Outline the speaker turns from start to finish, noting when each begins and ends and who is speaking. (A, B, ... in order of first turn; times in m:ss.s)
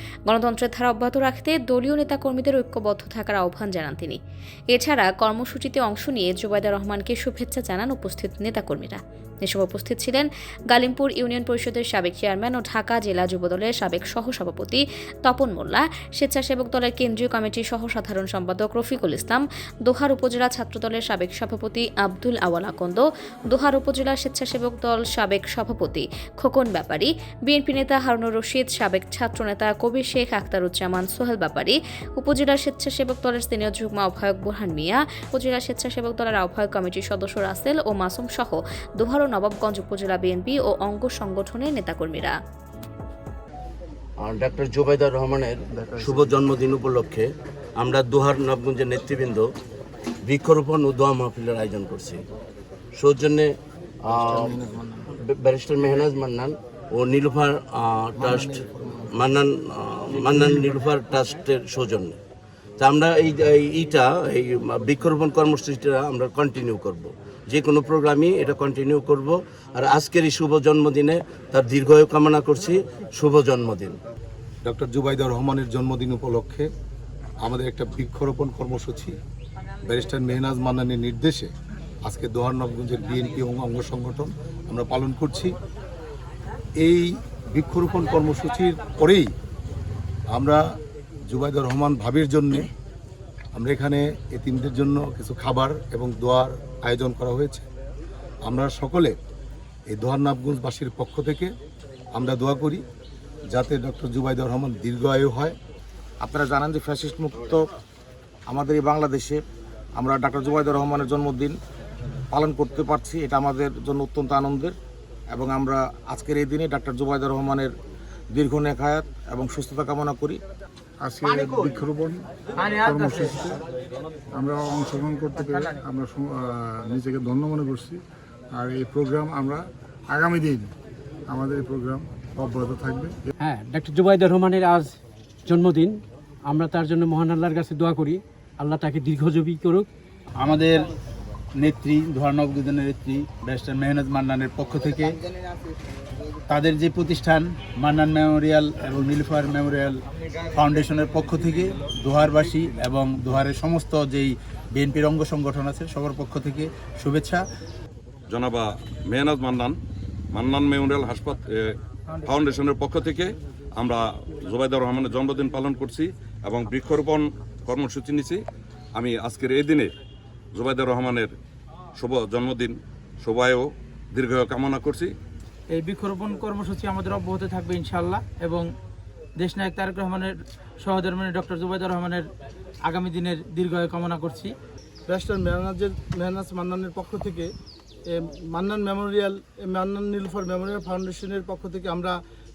0:00.3-0:04.2 A
0:04.7-0:42.4 A
0:44.2-0:49.5 B
0:50.2-0:52.2 B
0:53.0-0:53.5 B
0:54.0-1:02.2 B
1:02.8-1:14.0 B
1:14.6-1:16.7 C
1:17.4-1:19.1 C
1:19.9-1:21.5 C
1:22.0-1:25.5 C
1:26.8-1:29.3 C
1:30.3-1:30.6 C
1:31.3-1:32.7 C
1:33.6-1:37.6 C
1:38.4-1:39.2 C
1:39.9-1:41.5 C
1:42.1-1:42.8 C
1:43.5-1:45.6 C
1:46.2-1:47.6 D
1:48.5-1:49.4 D
1:50.0-1:51.6 D
1:52.3-1:54.8 D
1:55.3-1:57.7 D
1:58.3-2:00.4 D
2:01.0-2:02.3 E
2:02.8-2:03.6 E
2:04.3-2:08.0 E
2:08.5-2:10.7 E
2:11.3-2:13.2 E
2:13.4-2:15.0 F
2:15.5-2:19.9 F
2:20.4-2:20.9 G
2:21.6-2:25.2 G
2:26.5-2:30.0 G
2:30.5-2:37.4 G
2:38.3-2:39.8 H
2:40.3-2:48.4 H
2:49.0-2:49.9 H
2:50.6-2:51.3 H
2:52.0-2:55.1 H
2:55.8-2:58.6 I
2:59.4-3:00.3 I
3:00.8-3:02.2 I
3:02.9-3:04.5 I
3:05.1-3:07.5 J
3:08.1-3:12.2 J